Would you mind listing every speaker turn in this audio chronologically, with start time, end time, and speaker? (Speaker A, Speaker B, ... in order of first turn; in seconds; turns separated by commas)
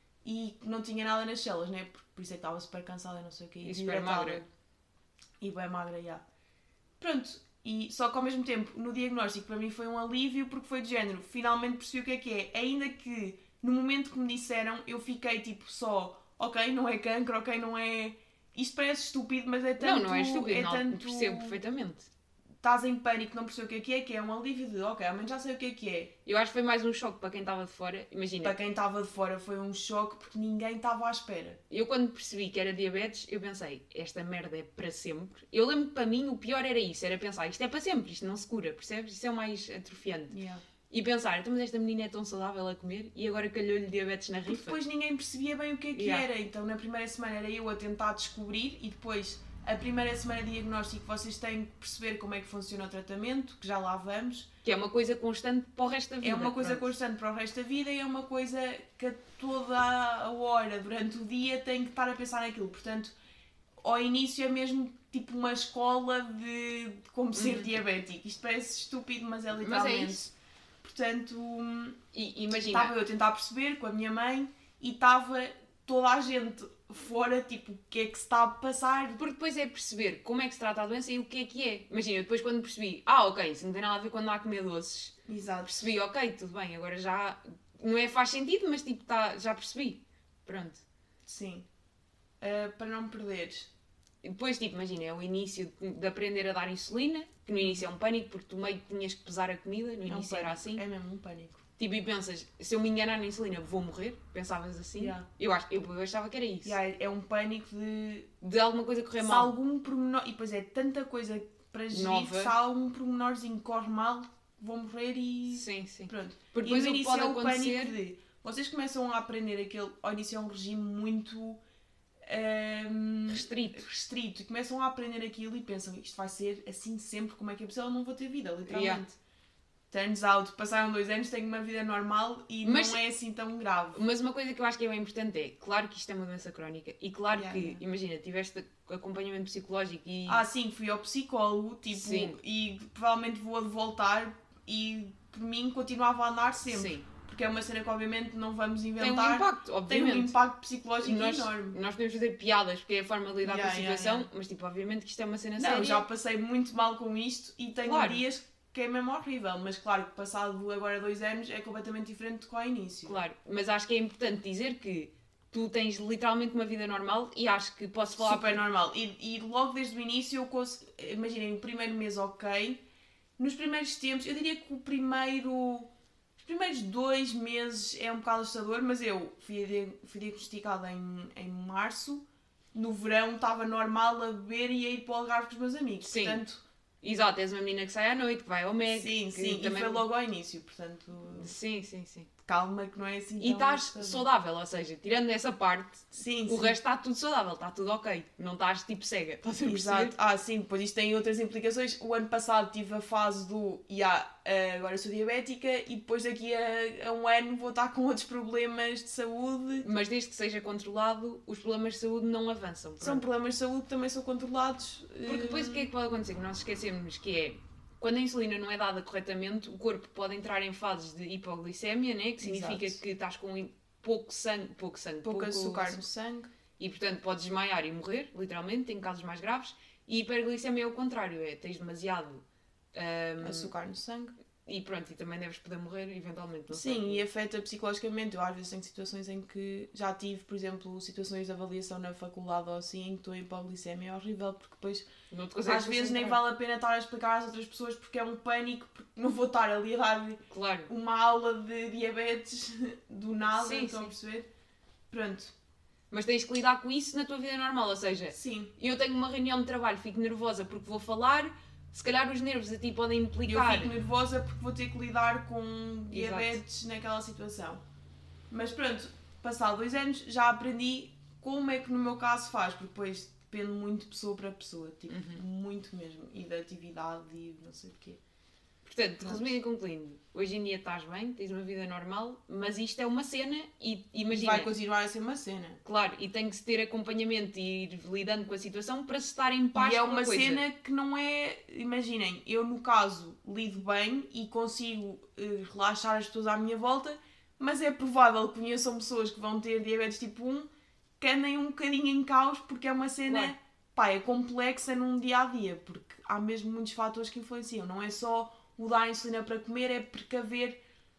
Speaker A: 0.2-4.5, Speaker B: 3.6-4.4, Speaker A: 5.4-6.2, Speaker A: 7.0-21.6, Speaker B: 19.8-22.1, Speaker A: 22.6-26.1, Speaker B: 26.2-28.5, Speaker A: 28.4-31.6, Speaker B: 31.7-40.4, Speaker A: 40.3-40.6, Speaker B: 40.9-44.8, Speaker A: 44.5-54.5, Speaker B: 45.9-46.2, Speaker B: 54.6-56.9, Speaker A: 56.2-63.1, Speaker A: 63.8-72.0, Speaker B: 67.3-67.7, Speaker B: 69.6-70.3, Speaker B: 72.1-72.9, Speaker A: 72.5-79.2, Speaker B: 79.2-90.8, Speaker A: 85.3-85.9, Speaker A: 91.2-91.7, Speaker A: 92.4-93.7, Speaker B: 94.2-100.8, Speaker A: 100.1-101.6, Speaker B: 101.8-106.8, Speaker A: 105.0-105.3, Speaker A: 106.6-108.3, Speaker B: 108.4-109.5, Speaker A: 109.2-121.6, Speaker B: 111.9-112.5, Speaker B: 115.5-118.0, Speaker A: 122.2-129.2, Speaker B: 123.3-123.9, Speaker B: 128.7-129.0, Speaker A: 129.9-134.0, Speaker B: 132.6-133.0, Speaker B: 133.9-140.4, Speaker A: 137.3-137.8, Speaker A: 140.2-151.8, Speaker B: 141.9-142.4, Speaker B: 146.7-147.0, Speaker B: 149.0-150.4, Speaker B: 151.0-156.0, Speaker A: 153.4-154.3, Speaker A: 155.6-163.2, Speaker B: 157.8-158.2, Speaker B: 163.1-168.6, Speaker A: 168.2-172.8, Speaker A: 173.4-186.6, Speaker B: 186.0-186.4, Speaker B: 187.0-190.0, Speaker A: 188.9-191.5, Speaker B: 191.3-192.3, Speaker A: 192.4-194.3, Speaker B: 193.4-200.1, Speaker A: 196.1-196.8, Speaker A: 199.6-209.9, Speaker B: 209.8-213.2, Speaker A: 213.0-215.9, Speaker B: 215.2-226.0, Speaker A: 222.4-223.0, Speaker A: 225.2-226.5, Speaker B: 226.8-233.7, Speaker A: 233.4-234.3, Speaker B: 234.7-237.2, Speaker A: 236.7-245.1, Speaker B: 245.3-246.4, Speaker A: 245.6-254.5, Speaker B: 250.5-250.9, Speaker B: 253.5-254.1, Speaker A: 255.1-255.5, Speaker B: 256.1-263.9, Speaker A: 258.3-258.7, Speaker A: 263.4-267.8, Speaker B: 266.1-266.6, Speaker A: 268.5-278.2, Speaker B: 275.1-275.4, Speaker B: 278.9-284.7, Speaker A: 279.2-279.5, Speaker A: 284.3-285.8, Speaker B: 285.8-290.6, Speaker A: 289.7-310.8, Speaker B: 303.2-303.5